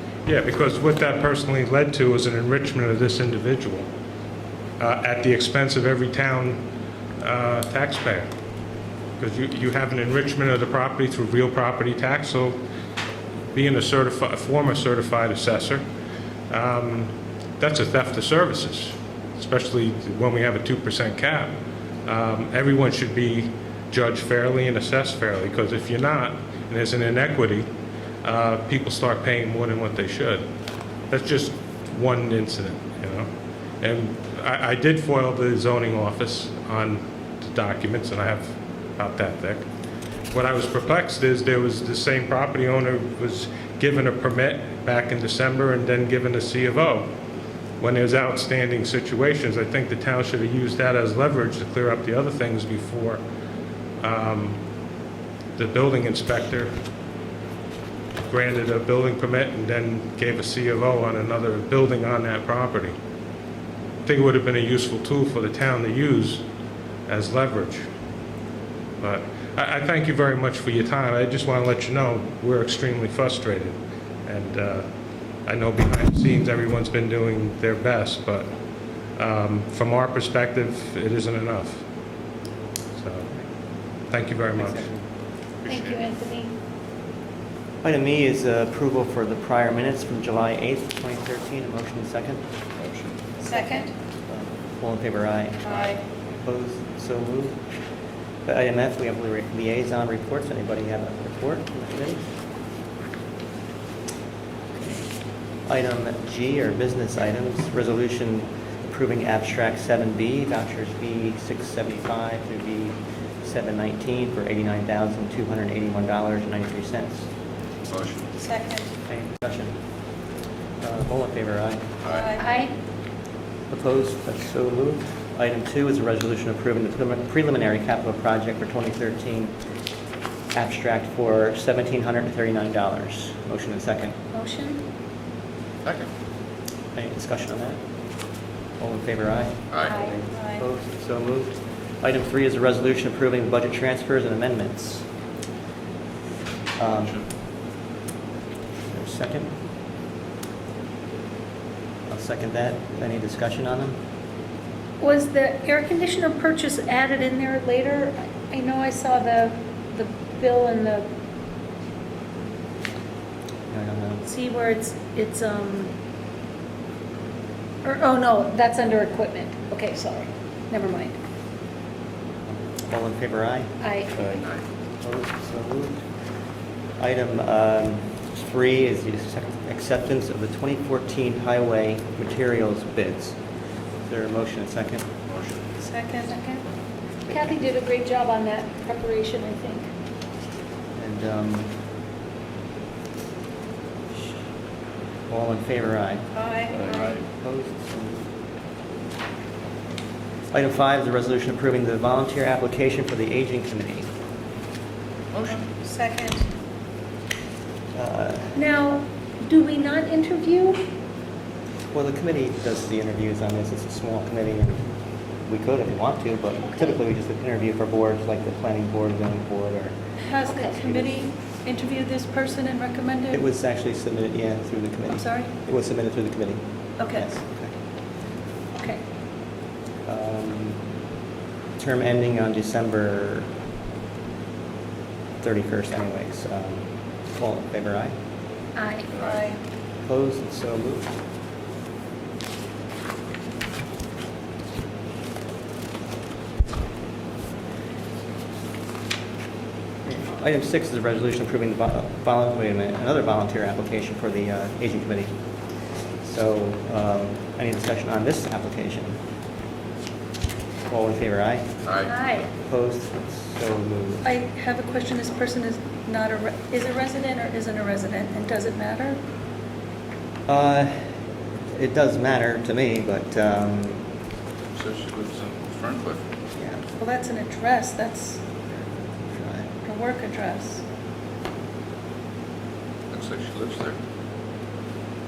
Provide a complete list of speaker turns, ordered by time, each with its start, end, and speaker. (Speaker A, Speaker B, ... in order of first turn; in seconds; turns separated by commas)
Speaker A: 0.3-3.9, Speaker A: 4.8-6.6, Speaker A: 7.2-8.3, Speaker A: 9.2-12.6, Speaker A: 13.5-15.8, Speaker A: 16.5-21.5, Speaker A: 22.1-27.7, Speaker A: 28.2-30.4, Speaker A: 31.1-33.3, Speaker A: 33.8-39.6, Speaker A: 40.3-47.1, Speaker A: 47.8-53.2, Speaker A: 54.0-54.6, Speaker A: 55.6-56.7, Speaker A: 58.3-63.0, Speaker A: 64.0-66.4, Speaker A: 67.1-67.8, Speaker A: 69.0-74.9, Speaker A: 75.5-78.5, Speaker A: 79.2-81.8, Speaker A: 83.0-83.3, Speaker A: 84.1-84.9, Speaker B: 84.5-85.0, Speaker C: 85.7-86.0, Speaker D: 85.7-86.5, Speaker B: 87.8-92.4, Speaker C: 92.8-93.2, Speaker E: 93.4-93.9, Speaker B: 94.3-95.7, Speaker E: 95.7-96.0, Speaker C: 95.7-96.0, Speaker B: 96.3-97.6, Speaker B: 98.5-102.3, Speaker B: 104.7-105.1, Speaker B: 105.7-117.3, Speaker C: 117.9-118.3, Speaker E: 118.4-118.9, Speaker B: 119.1-119.8, Speaker B: 120.8-121.9, Speaker C: 122.0-122.3, Speaker E: 122.1-122.7, Speaker D: 122.4-122.7, Speaker B: 123.7-129.6, Speaker B: 130.5-134.2, Speaker D: 134.3-134.8, Speaker C: 135.8-136.1, Speaker B: 136.9-137.8, Speaker B: 138.8-145.1, Speaker D: 139.9-140.2, Speaker E: 140.3-140.7, Speaker B: 146.8-147.2, Speaker B: 148.9-149.5, Speaker B: 152.1-154.0, Speaker D: 155.0-161.1, Speaker B: 163.7-164.2, Speaker D: 164.2-165.9, Speaker D: 167.8-171.2, Speaker B: 172.5-173.7, Speaker D: 173.8-174.1, Speaker C: 174.2-174.6, Speaker B: 175.0-176.0, Speaker B: 177.0-183.4, Speaker B: 184.1-185.1, Speaker C: 185.3-185.7, Speaker E: 185.8-186.4, Speaker D: 186.3-186.6, Speaker B: 187.3-187.6, Speaker D: 187.3-189.9, Speaker B: 191.0-191.8, Speaker B: 195.3-196.3, Speaker E: 196.3-197.1, Speaker C: 196.7-197.2, Speaker B: 197.3-198.2, Speaker B: 200.5-204.1, Speaker C: 205.3-205.6, Speaker E: 205.4-206.5, Speaker B: 207.9-208.6, Speaker D: 208.5-210.8, Speaker B: 211.9-214.9, Speaker B: 215.4-220.0, Speaker E: 220.3-223.4, Speaker B: 220.7-221.1, Speaker B: 223.3-227.7, Speaker E: 225.2-225.5, Speaker E: 227.0-227.3, Speaker B: 230.1-230.8, Speaker B: 231.8-233.5, Speaker B: 235.4-238.1, Speaker D: 238.8-239.1, Speaker C: 239.1-239.5, Speaker E: 239.1-239.6, Speaker B: 240.0-241.1, Speaker B: 250.1-255.3, Speaker B: 256.2-259.2, Speaker B: 260.9-261.9, Speaker C: 261.9-262.2, Speaker D: 262.1-262.5, Speaker B: 262.5-264.3, Speaker E: 264.2-269.2, Speaker B: 270.5-271.2, Speaker B: 271.8-274.1, Speaker C: 274.7-276.2, Speaker B: 276.6-276.8, Speaker E: 277.0-278.4, Speaker B: 279.2-279.7, Speaker E: 279.9-280.8, Speaker C: 283.1-284.0